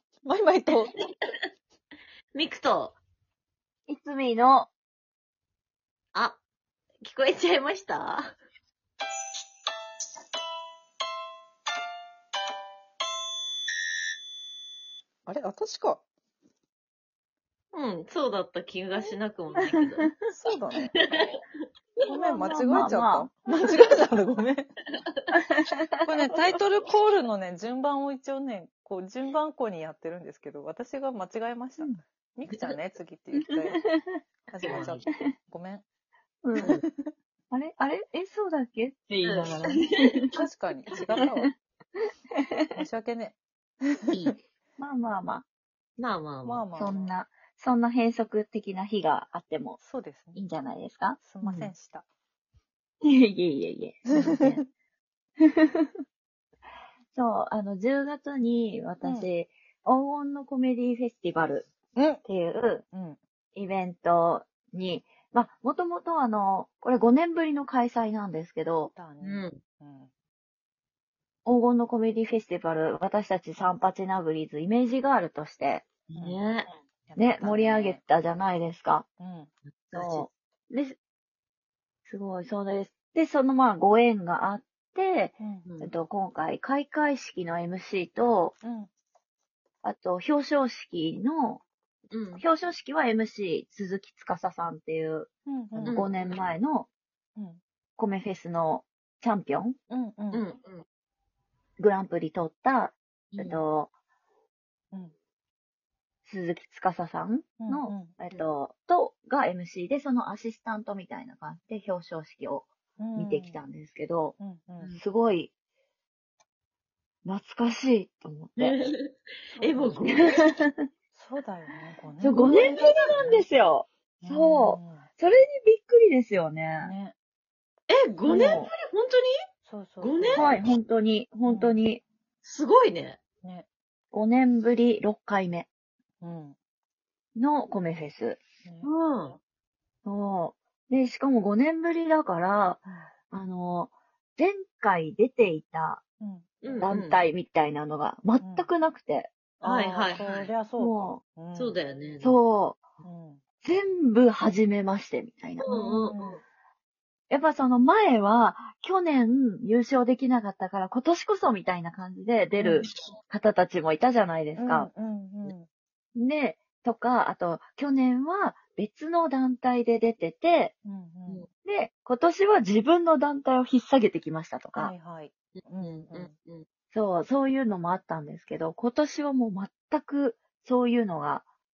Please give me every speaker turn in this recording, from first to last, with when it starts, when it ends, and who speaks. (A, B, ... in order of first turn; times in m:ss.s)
0:00.2-0:01.0 A
0:02.3-0:03.0 B
0:03.9-0:04.7 C
0:06.1-0:06.4 B
0:07.0-0:08.3 B
0:15.3-0:16.0 A
0:17.7-0:20.2 B
0:19.6-0:20.1 C
0:20.3-0:21.3 A
0:21.0-0:21.4 B
0:22.0-0:24.7 A
0:22.1-0:23.3 C
0:25.3-0:26.0 C
0:26.0-0:33.8 A
0:33.5-0:34.2 C
0:34.5-0:35.8 A
0:34.6-0:35.1 B
0:34.7-0:35.3 C
0:36.4-0:36.7 C
0:36.6-0:36.8 B
0:36.6-0:37.1 A
0:37.5-0:40.2 C
0:39.2-0:40.2 B
0:40.3-0:41.5 A
0:42.4-0:42.8 C
0:42.7-0:43.4 A
0:43.9-0:44.2 A
0:44.8-0:45.5 C
0:46.0-0:46.7 B
0:46.4-0:47.1 A
0:46.7-0:49.8 C
0:49.8-0:50.5 A
0:50.4-0:51.7 C
0:51.2-0:52.1 A
0:53.0-0:54.6 C
0:54.1-0:54.7 A
0:55.4-0:55.9 C
0:57.2-1:01.7 C
0:59.0-0:59.3 A
1:02.0-1:02.2 A
1:02.2-1:02.8 C
1:02.9-1:03.2 A
1:03.6-1:08.9 C
1:08.9-1:10.1 A
1:09.2-1:09.6 B
1:11.4-1:15.9 C
1:16.1-1:16.7 B
1:16.2-1:16.4 A
1:17.1-1:18.0 A
1:17.2-1:19.1 C
1:19.2-1:19.5 A
1:19.9-1:20.3 B
1:19.9-1:21.0 C
1:22.1-1:28.6 C
1:25.4-1:25.6 A
1:25.6-1:25.9 B
1:28.6-1:28.9 A
1:29.8-1:31.6 C
1:32.1-1:32.4 B
1:32.4-1:36.9 C
1:35.5-1:36.1 A
1:35.8-1:36.3 B
1:38.0-1:39.8 C
1:39.9-1:40.4 A
1:40.3-1:40.8 B
1:41.8-1:43.9 C
1:43.3-1:43.6 B
1:46.2-1:54.4 C
1:47.6-1:48.1 A
1:53.0-1:53.6 A
1:54.4-1:55.0 A
1:55.0-1:55.5 C
1:57.2-1:58.8 C
1:58.6-2:00.6 B
1:59.5-2:00.2 A
2:00.1-2:00.9 C
2:01.1-2:03.5 A
2:02.2-2:06.9 C
2:02.3-2:03.3 B
2:04.2-2:05.1 A
2:06.8-2:07.1 A
2:07.9-2:09.3 B
2:08.3-2:08.7 C
2:09.6-2:10.6 A
2:10.0-2:10.6 B
2:10.3-2:12.0 C
2:11.4-2:11.8 A
2:12.4-2:13.2 B
2:14.1-2:15.7 C
2:16.2-2:16.6 A
2:17.4-2:18.4 C
2:18.6-2:18.9 A
2:18.8-2:19.4 B
2:20.0-2:26.0 C
2:22.9-2:23.1 A
2:26.2-2:26.9 A
2:26.6-2:27.3 B
2:26.8-2:29.3 C
2:28.4-2:28.7 A
2:29.6-2:31.8 A
2:29.6-2:30.5 B
2:30.8-2:31.2 C
2:31.6-2:32.4 B
2:32.2-2:32.9 C
2:33.0-2:33.4 A
2:33.6-2:35.7 C
2:35.6-2:36.4 B
2:35.7-2:36.4 A
2:37.3-2:44.9 C
2:42.6-2:42.9 A
2:44.6-2:45.7 A
2:46.2-2:50.7 C
2:50.8-2:51.5 A
2:51.6-2:54.9 C
2:54.8-2:56.3 A
2:55.5-2:56.7 B
2:56.9-3:01.4 C